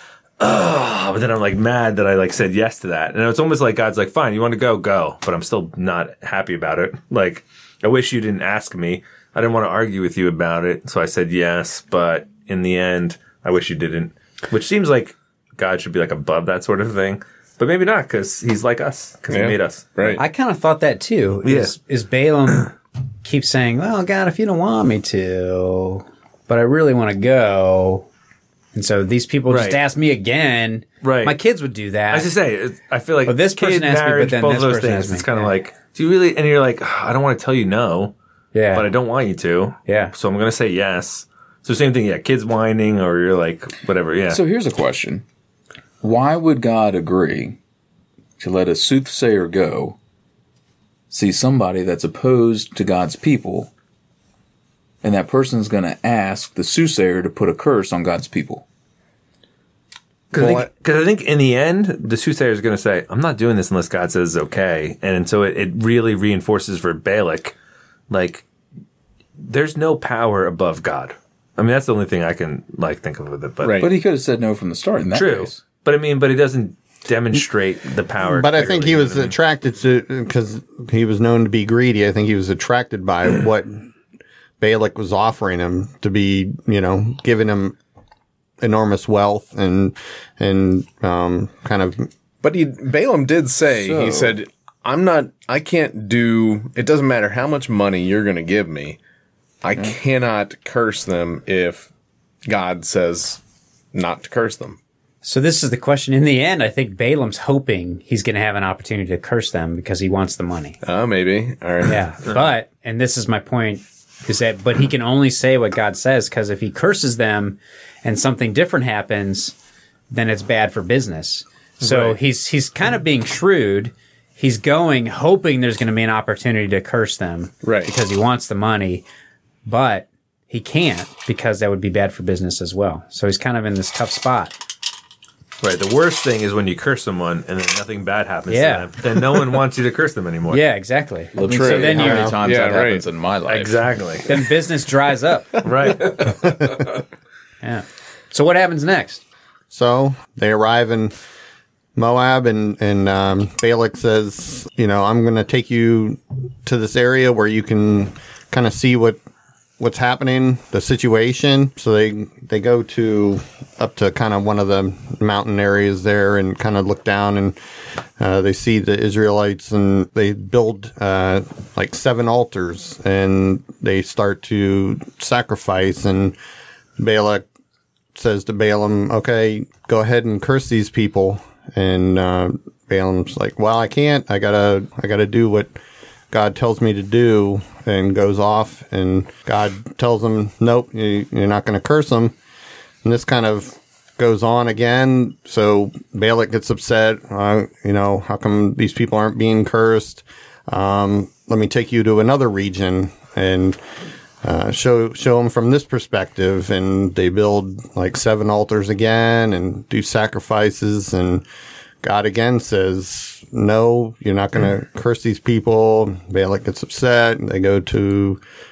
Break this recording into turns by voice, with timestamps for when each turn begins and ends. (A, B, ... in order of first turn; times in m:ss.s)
0:00.4-0:20.2 A
0:19.3-0:20.2 B
0:20.2-0:28.1 C
0:21.4-0:21.7 A
0:28.7-0:32.3 C
0:29.5-0:29.8 A
0:31.0-0:31.4 A
0:32.1-0:38.1 A
0:33.2-0:35.5 C
0:38.5-0:38.9 C
0:38.7-0:44.4 A
0:39.9-0:40.1 C
0:44.3-0:45.2 D
0:46.0-0:47.6 D
0:48.4-0:50.0 D
0:51.1-0:53.7 D
0:55.0-0:58.6 D
1:00.3-1:07.5 A
1:00.4-1:00.7 E
1:08.1-1:08.4 A
1:09.4-1:13.8 A
1:13.6-1:13.9 B
1:13.8-1:15.6 D
1:15.1-1:19.3 A
1:18.2-1:23.8 E
1:24.6-1:27.8 E
1:28.6-1:32.1 E
1:32.4-1:39.0 B
1:33.7-1:34.4 D
1:39.6-1:41.9 B
1:42.4-1:43.4 B
1:43.9-1:44.8 B
1:45.2-1:50.8 C
1:50.8-1:52.0 B
1:51.8-1:59.5 C
2:00.1-2:09.0 C
2:01.8-2:02.2 B
2:07.6-2:07.9 B
2:09.6-2:14.5 C
2:15.6-2:20.6 A
2:18.5-2:18.9 C
2:20.5-2:22.3 C
2:21.3-2:23.8 D
2:21.4-2:23.0 B
2:22.0-2:22.3 E
2:23.5-2:24.3 A
2:24.3-2:25.5 C
2:25.6-2:26.3 A
2:27.6-2:29.2 C
2:29.7-2:31.1 E
2:32.0-2:39.2 E
2:39.8-2:47.6 E
2:48.2-2:56.4 E
2:57.0-2:57.4 E
2:58.1-3:05.7 E
3:06.3-3:12.3 E
3:13.0-3:23.8 E
3:24.4-3:31.4 E
3:32.0-3:38.4 E